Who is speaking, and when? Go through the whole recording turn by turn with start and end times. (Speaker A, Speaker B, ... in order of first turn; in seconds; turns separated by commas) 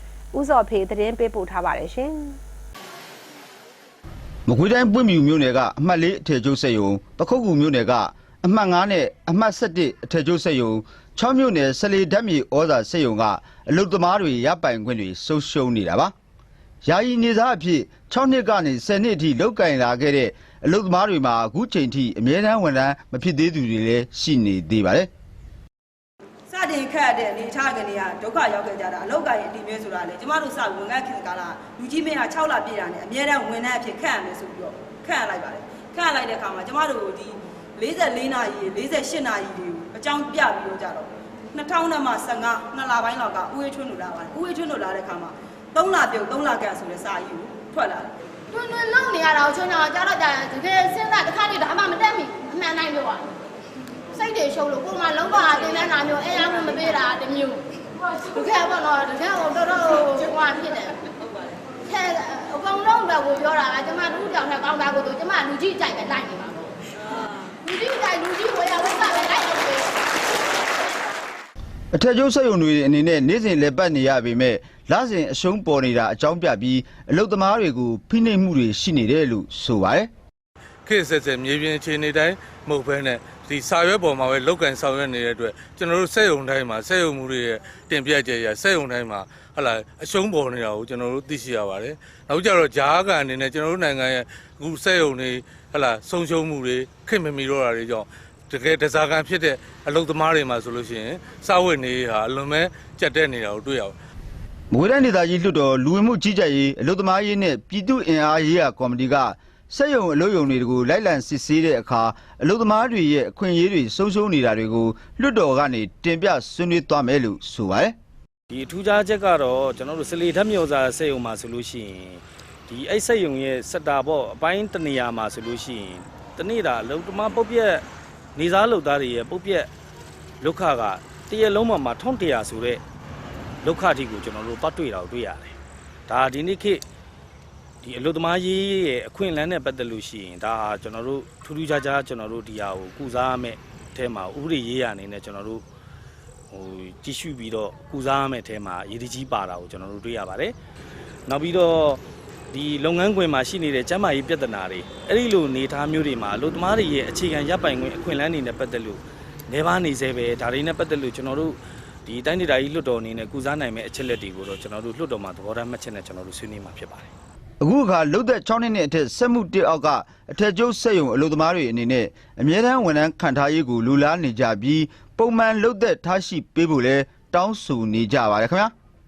Speaker A: 0.3-2.4, Speaker B: 4.5-16.1, Speaker B: 16.8-25.1, Speaker C: 26.5-48.1, Speaker D: 48.5-53.3, Speaker D: 54.1-61.0, Speaker D: 61.9-66.7, Speaker D: 67.6-69.9, Speaker B: 71.9-80.1, Speaker E: 80.8-104.0, Speaker B: 104.7-118.0, Speaker F: 118.5-127.8, Speaker F: 128.4-129.7, Speaker F: 130.4-132.8, Speaker F: 133.6-135.6, Speaker F: 136.1-136.8, Speaker F: 137.8-145.6, Speaker F: 146.5-150.6, Speaker F: 151.3-167.1, Speaker B: 167.6-178.7